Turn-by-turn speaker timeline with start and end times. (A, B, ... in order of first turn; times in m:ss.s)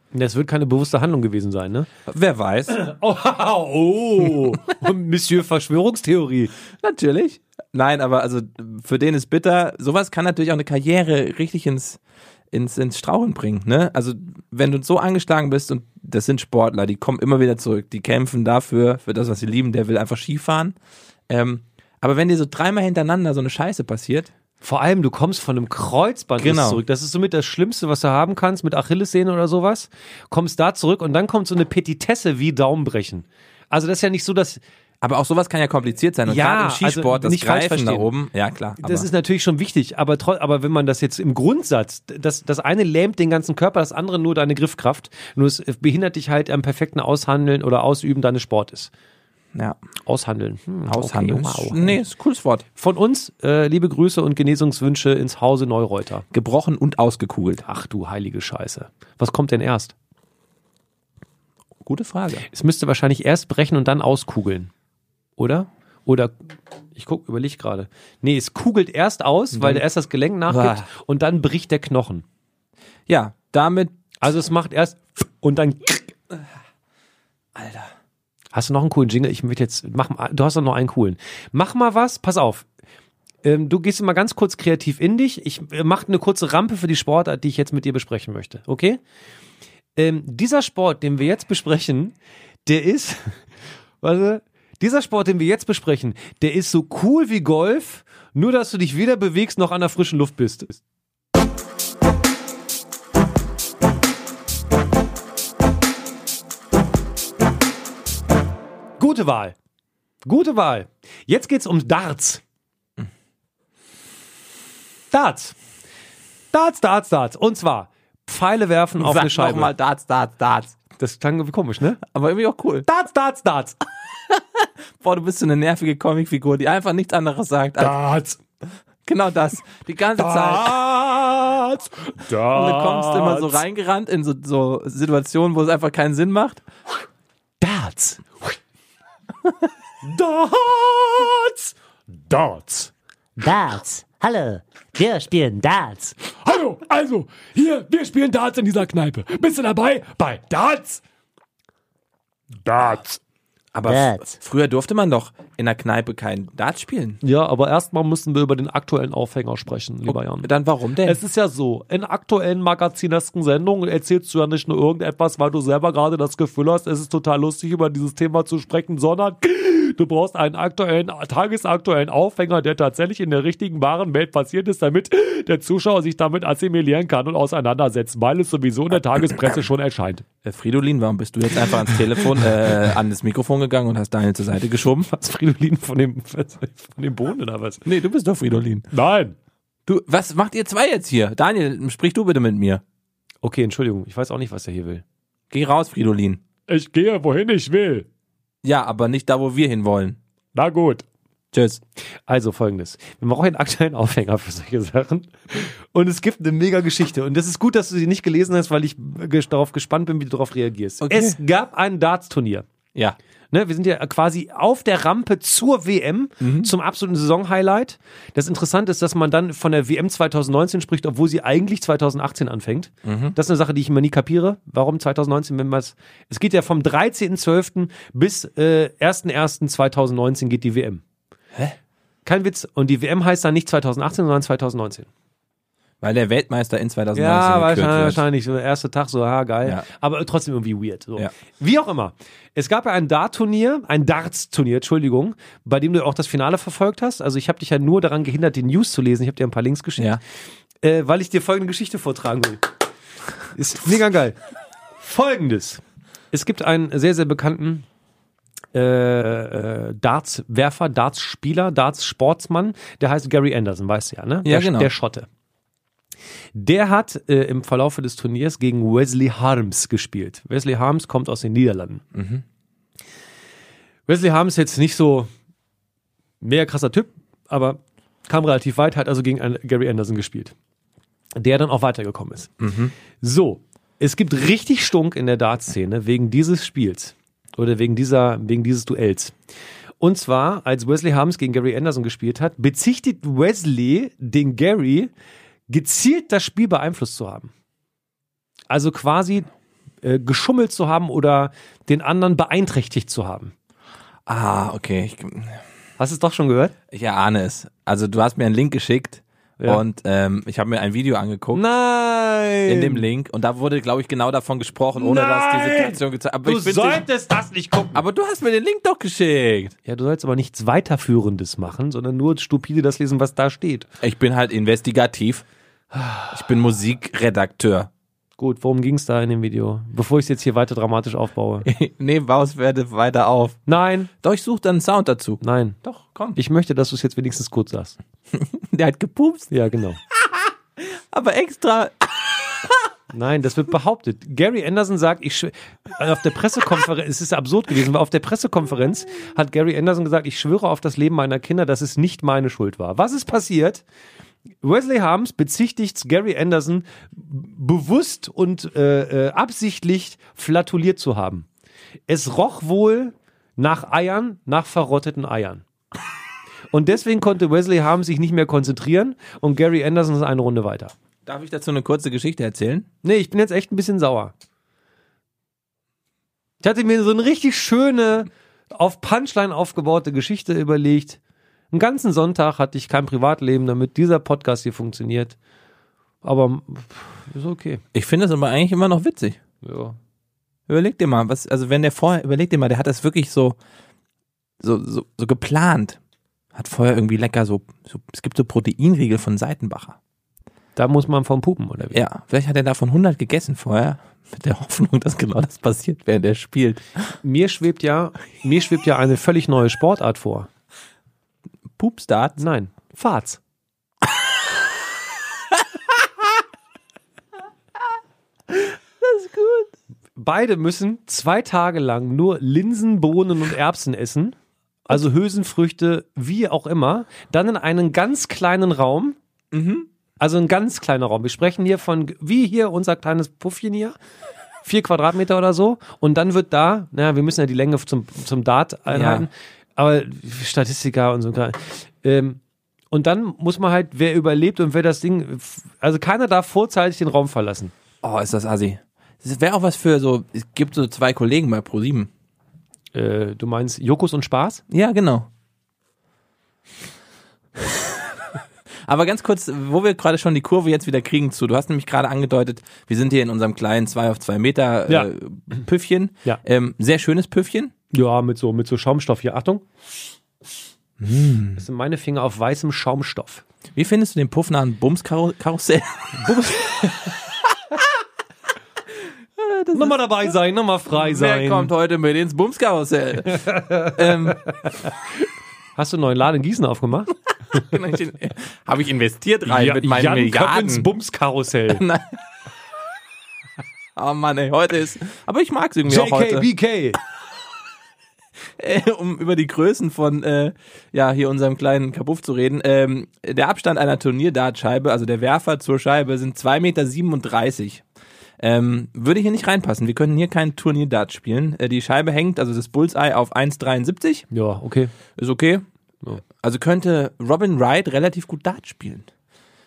0:00.1-0:01.9 A
0:02.1-0:02.8 B
0:02.7-0:06.5 A
0:06.8-0:12.0 B
0:12.5-0:20.8 B
0:21.3-0:24.3 B
0:24.6-0:34.6 A
0:26.4-0:26.8 B
0:35.0-0:39.1 B
0:36.2-0:38.1 A
0:38.8-0:48.9 A
0:50.0-0:52.0 A
0:50.9-0:52.6 B
0:52.8-0:56.2 A
0:56.3-0:57.6 B
0:57.6-0:59.9 A
1:01.8-1:02.4 B
1:02.5-1:04.7 A
1:05.4-1:06.4 A
1:06.9-1:12.2 A
1:09.5-1:09.8 B
1:10.5-1:10.8 B
1:13.1-1:14.0 B
1:14.2-1:16.1 A
1:17.5-1:17.9 B
1:18.5-1:22.6 A
1:23.4-1:29.0 A
1:30.0-1:32.1 A
1:32.6-1:33.4 A
1:34.0-1:40.8 A
1:49.0-1:49.6 A
1:50.2-1:52.4 A
1:55.1-1:55.5 A
1:56.5-1:59.7 A
1:59.0-2:00.8 B
2:01.0-2:02.0 A
2:02.0-2:02.8 B
2:02.8-2:03.8 A
2:04.3-2:08.0 B
2:07.8-2:08.4 A
2:09.0-2:10.8 B
2:10.2-2:13.6 A
2:12.5-2:16.6 B
2:17.6-2:18.5 A
2:20.0-2:21.7 A
2:22.2-2:22.9 A
2:23.4-2:26.2 C
2:26.3-2:31.0 A
2:32.6-2:33.2 A
2:33.7-2:37.2 B
2:33.8-2:34.3 C
2:37.2-2:40.5 A
2:40.0-2:41.2 B
2:41.0-3:00.2 A
3:00.4-3:05.1 B
3:05.0-3:07.8 A
3:07.8-3:08.9 B
3:08.9-3:09.4 A
3:09.8-3:12.8 B
3:13.4-3:15.0 A
3:15.5-3:16.4 B
3:16.7-3:18.0 A
3:18.6-3:20.2 B
3:20.5-3:21.0 A
3:21.5-3:21.8 B
3:22.3-3:32.6 A
3:31.0-3:31.4 B
3:33.5-3:51.0 A
3:36.4-3:36.7 B
3:43.0-3:43.4 B
3:52.2-3:55.1 A
3:56.0-3:58.2 B
3:57.1-4:10.2 A
4:10.8-4:12.6 A
4:13.5-4:14.4 A
4:15.0-4:17.8 A
4:18.7-4:25.3 A
4:24.4-4:24.9 B
4:26.5-4:32.0 A
4:32.1-4:32.4 B
4:34.1-4:35.3 A
4:36.4-4:40.5 A
4:41.4-4:42.6 A
4:42.6-4:42.9 B
4:43.2-4:49.4 A
4:50.0-4:55.1 A
4:55.7-4:57.5 A
4:58.7-4:59.5 A
5:00.0-5:03.5 A
5:04.3-5:05.6 B
5:06.0-5:06.7 A
5:06.9-5:11.6 B
5:11.5-5:13.0 A
5:12.7-5:17.0 B
5:15.0-5:18.0 A
5:17.9-5:19.7 B
5:19.8-5:23.9 A
5:24.0-5:25.4 B
5:25.9-5:26.3 A
5:26.3-5:27.9 B
5:28.4-5:31.7 A
5:31.6-5:33.6 B
5:33.7-5:34.1 A
5:34.2-5:36.4 B
5:35.4-5:35.8 A
5:36.3-5:38.0 A
5:38.3-5:39.5 B
5:39.5-5:40.0 A
5:40.1-5:42.8 B
5:43.1-5:53.8 A
5:54.6-6:01.5 A
6:02.1-6:05.6 A
6:06.7-6:10.9 A
6:11.2-6:12.9 B
6:13.0-6:14.3 A
6:16.6-6:21.2 A
6:21.7-6:25.4 A
6:26.2-6:27.8 A
6:27.9-6:29.4 B
6:29.6-6:30.0 A
6:30.7-6:33.6 B
6:34.6-6:36.0 B
6:36.5-6:40.0 B
6:40.8-6:42.0 A
6:41.9-6:47.1 B
6:47.2-6:50.5 A
6:51.8-6:52.4 B
6:52.4-6:53.4 A
6:58.5-6:59.7 B
7:00.2-7:04.4 A
7:04.9-7:09.2 A
7:09.5-7:09.9 B
7:10.2-7:14.0 A
7:14.6-7:22.4 A
7:18.9-7:19.3 B
7:22.9-7:27.7 A
7:28.0-7:32.1 B
7:32.9-7:34.6 A
7:34.7-7:35.3 B
7:38.8-7:47.7 B
7:47.9-7:49.6 A
7:51.0-7:51.6 B
7:51.6-7:53.4 A
7:53.7-7:57.4 B
7:59.4-8:00.0 B
7:59.7-8:01.7 A
8:00.9-8:04.4 B
8:03.5-8:04.5 A
8:05.8-8:07.6 A
8:07.5-8:10.9 B
8:09.5-8:11.8 A
8:11.7-8:12.2 B
8:14.0-8:16.5 B
8:15.8-8:17.0 A
8:18.6-8:27.8 B
8:28.4-8:34.2 B
8:34.3-8:34.9 A
8:35.2-8:35.6 B
8:36.3-8:39.1 B